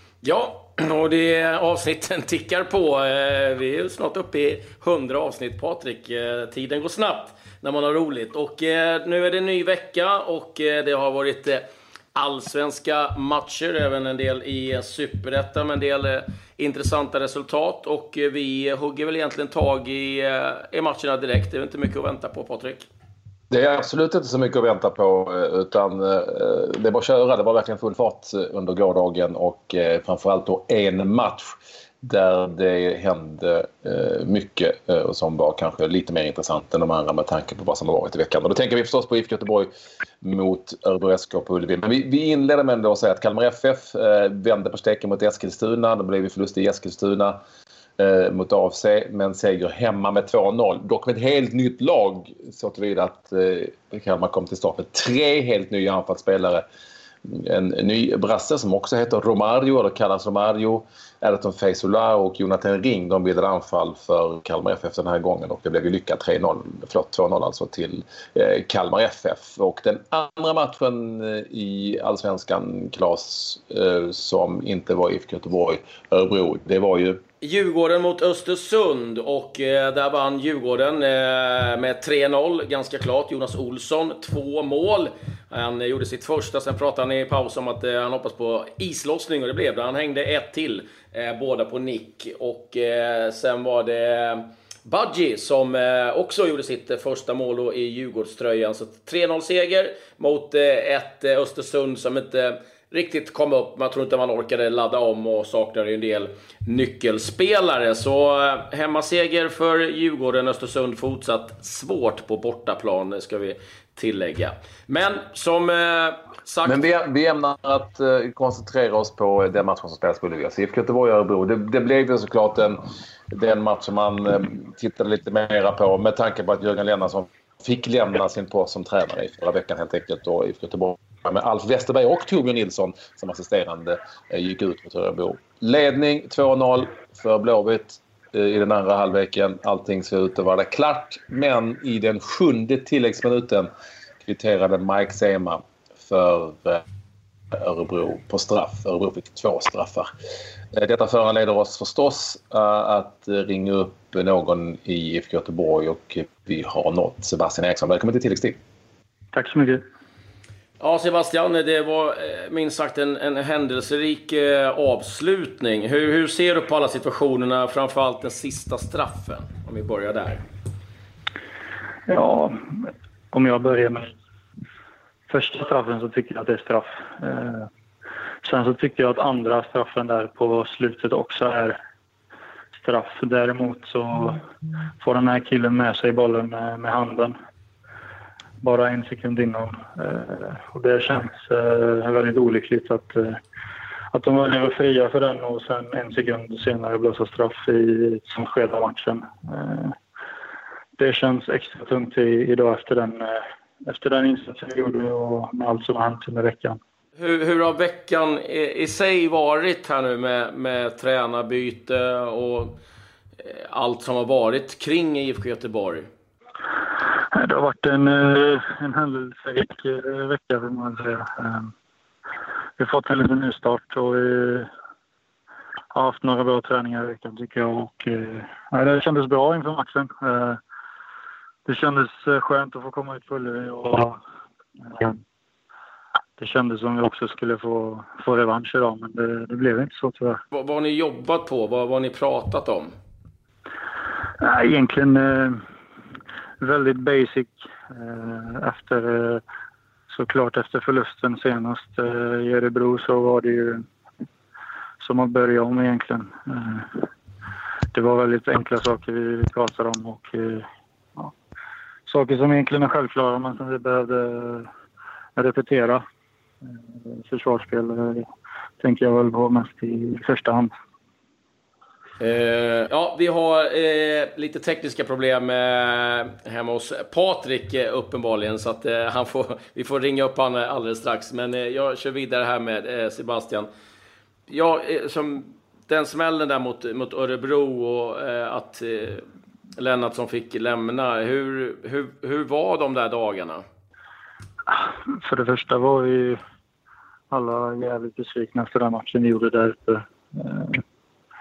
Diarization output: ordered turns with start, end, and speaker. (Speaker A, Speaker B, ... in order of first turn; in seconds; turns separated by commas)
Speaker A: 0.2-11.6, Speaker A: 12.1-22.9, Speaker B: 23.5-39.7, Speaker B: 40.2-47.4, Speaker B: 48.0-56.6, Speaker B: 57.2-77.2, Speaker A: 77.4-116.8, Speaker B: 116.6-143.7, Speaker B: 144.2-146.8, Speaker B: 147.5-150.1, Speaker B: 150.7-158.6, Speaker C: 159.3-159.8, Speaker A: 160.8-170.4, Speaker C: 172.1-174.1, Speaker C: 175.3-177.7, Speaker C: 178.4-181.8, Speaker C: 182.8-184.4, Speaker C: 185.0-187.3, Speaker C: 188.6-193.4, Speaker C: 194.1-199.9, Speaker C: 201.0-206.8, Speaker A: 207.2-212.8, Speaker A: 213.4-216.1, Speaker C: 217.3-221.7, Speaker C: 222.8-224.7, Speaker C: 225.9-230.6, Speaker C: 231.6-234.2, Speaker C: 234.8-235.2, Speaker C: 236.4-240.4, Speaker A: 240.5-242.9, Speaker C: 244.4-245.6, Speaker C: 246.6-249.4, Speaker C: 250.1-253.8, Speaker C: 255.0-257.1, Speaker C: 257.9-261.3, Speaker C: 262.1-264.7, Speaker C: 265.4-266.0, Speaker C: 267.1-268.3, Speaker C: 268.8-270.7, Speaker A: 272.2-283.7, Speaker A: 284.5-289.2, Speaker A: 289.8-293.6, Speaker C: 294.7-296.4, Speaker C: 297.3-300.8